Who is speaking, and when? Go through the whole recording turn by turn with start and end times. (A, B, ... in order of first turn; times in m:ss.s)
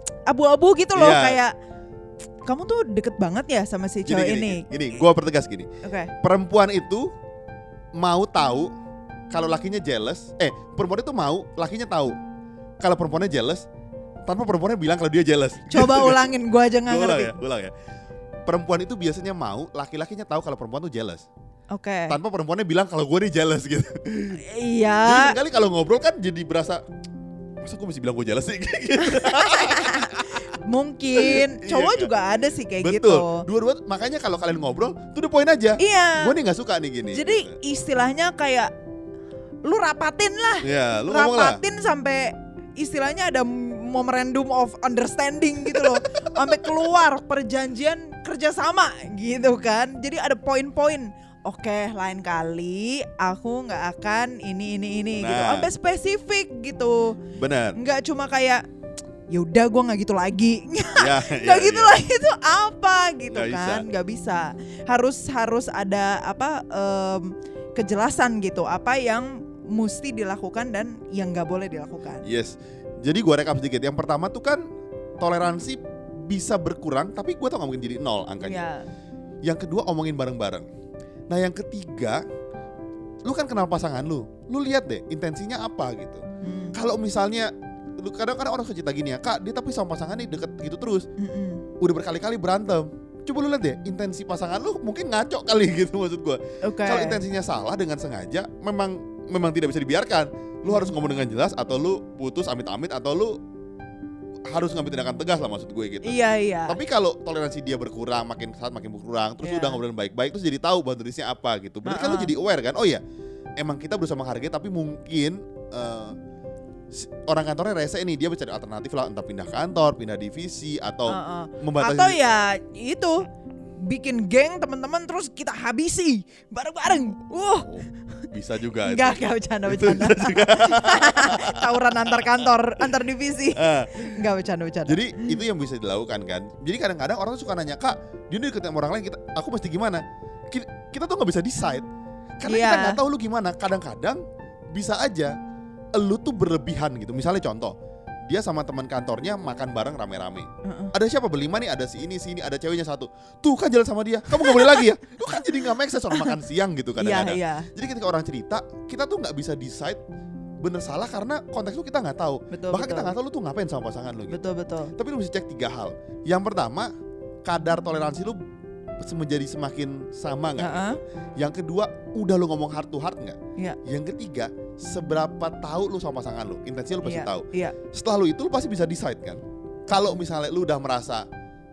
0:00.3-0:01.5 A
0:00.9-0:01.4 B
0:02.4-0:04.6 A
0:04.0-0:05.7 B
0:05.8-0:06.1 A
0:06.2-0:07.1 B
0:08.0-0:08.7 B
0:09.3-0:12.1 B
0:12.8-0:13.6 B
0:14.2-0:16.3 B
0:15.7-0:17.4 A
0:16.9-0:17.7 B
0:18.4-0:21.3 B
0:21.7-0:22.2 A
0:22.1-0:24.4 B
0:24.4-0:25.4 A
0:25.0-0:26.8 B
0:27.6-0:30.4 B
0:29.0-0:33.4 A
0:31.2-0:32.1 B
0:32.8-0:37.6 B
0:35.8-0:36.4 A
0:37.0-0:38.7 A
0:39.6-0:57.2 A
0:40.6-0:41.6 B
0:45.7-0:46.6 B
0:55.2-0:55.7 B
0:57.4-0:57.8 B
0:57.8-0:58.6 A
0:59.3-1:12.2 A
1:01.0-1:02.0 B
1:03.3-1:03.8 B
1:12.2-1:14.6 B
1:15.2-1:18.6 B
1:18.4-1:18.8 A
1:19.4-1:20.6 B
1:21.3-1:22.2 B
1:23.2-1:26.2 B
1:26.4-1:26.8 A
1:26.7-1:31.1 B
1:31.2-1:31.6 A
1:31.8-1:43.4 B
1:36.6-1:37.2 A
1:40.7-1:40.9 A
1:44.5-1:53.0 B
1:46.0-1:46.8 A
1:49.4-1:49.8 A
1:51.8-1:52.3 A
1:53.6-1:56.2 B
1:56.9-2:02.2 B
2:01.1-2:03.2 A
2:03.8-2:07.8 A
2:07.6-2:12.4 B
2:08.8-2:15.4 A
2:13.6-2:14.2 B
2:14.9-2:21.8 B
2:22.4-2:24.2 B
2:22.4-2:23.0 A
2:24.7-2:25.3 B
2:26.0-2:27.7 B
2:28.3-2:40.0 B
2:30.6-2:30.9 A
2:34.4-2:34.8 A
2:37.0-2:37.7 A
2:40.6-2:44.4 B
2:42.5-2:43.1 A
2:44.3-2:44.9 A
2:45.0-2:46.9 B
2:47.4-2:48.4 B
2:49.0-3:01.2 B
2:50.6-2:51.0 A
2:57.0-2:57.7 A